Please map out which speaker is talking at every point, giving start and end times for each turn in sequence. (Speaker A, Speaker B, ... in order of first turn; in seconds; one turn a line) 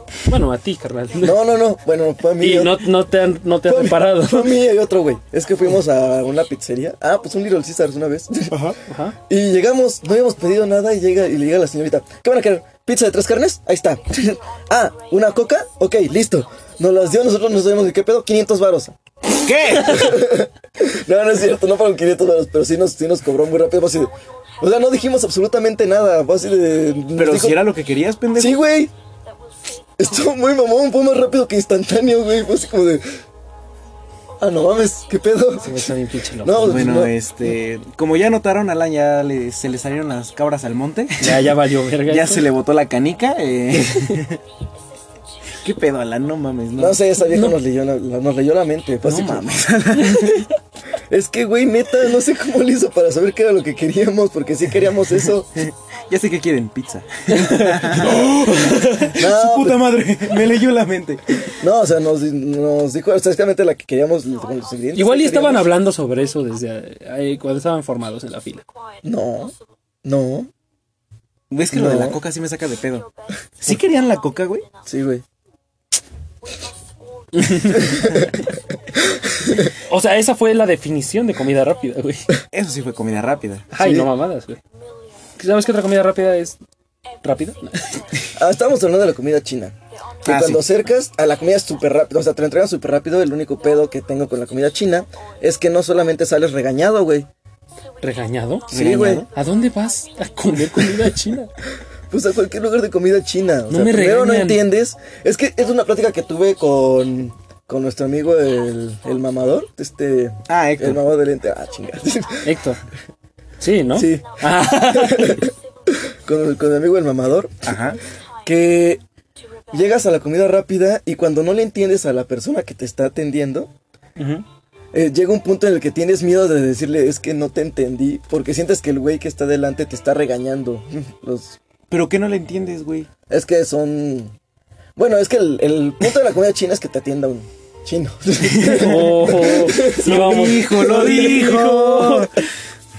Speaker A: 0.3-1.4
Speaker B: 1.2-3.0
Speaker A: 2.4-4.5
Speaker B: 3.7-8.7
Speaker C: 8.5-8.8
Speaker A: 8.8-9.2
Speaker B: 9.3-19.0
Speaker C: 19.4-20.2
Speaker B: 19.8-27.7
Speaker C: 27.1-28.6
Speaker B: 28.4-28.9
Speaker B: 30.0-33.0
Speaker B: 34.4-35.9
Speaker A: 35.6-37.1
Speaker B: 36.4-37.2
Speaker C: 36.6-41.5
Speaker A: 41.2-42.5
Speaker C: 42.1-44.4
Speaker C: 45.6-47.0
Speaker B: 46.8-49.7
Speaker C: 49.0-50.5
Speaker A: 50.0-50.5
Speaker B: 51.1-55.6
Speaker C: 55.6-61.5
Speaker A: 57.3-59.2
Speaker B: 59.2-60.0
Speaker B: 61.6-65.7
Speaker A: 64.9-68.7
Speaker B: 69.0-70.5
Speaker C: 71.5-73.1
Speaker B: 71.7-72.2
Speaker C: 73.6-74.7
Speaker B: 74.8-75.2
Speaker A: 77.3-78.3
Speaker B: 77.6-78.5
Speaker B: 79.1-79.7
Speaker A: 79.7-82.3
Speaker C: 82.5-83.7
Speaker A: 83.7-84.6
Speaker B: 83.8-84.1
Speaker A: 85.4-86.6
Speaker A: 87.2-88.3
Speaker B: 88.3-97.3
Speaker C: 90.2-90.8
Speaker A: 98.0-101.5
Speaker B: 98.7-99.3
Speaker C: 98.7-99.3
Speaker B: 102.1-112.6
Speaker A: 103.7-104.7
Speaker C: 110.5-111.0
Speaker A: 112.4-112.8
Speaker A: 113.6-115.5
Speaker B: 113.9-117.7
Speaker C: 117.7-118.0
Speaker B: 118.5-119.0
Speaker B: 119.7-123.7
Speaker C: 124.2-124.4
Speaker B: 124.9-131.6
Speaker C: 131.9-133.1
Speaker B: 133.3-134.3
Speaker B: 135.0-141.6
Speaker C: 138.4-142.4
Speaker A: 138.6-142.4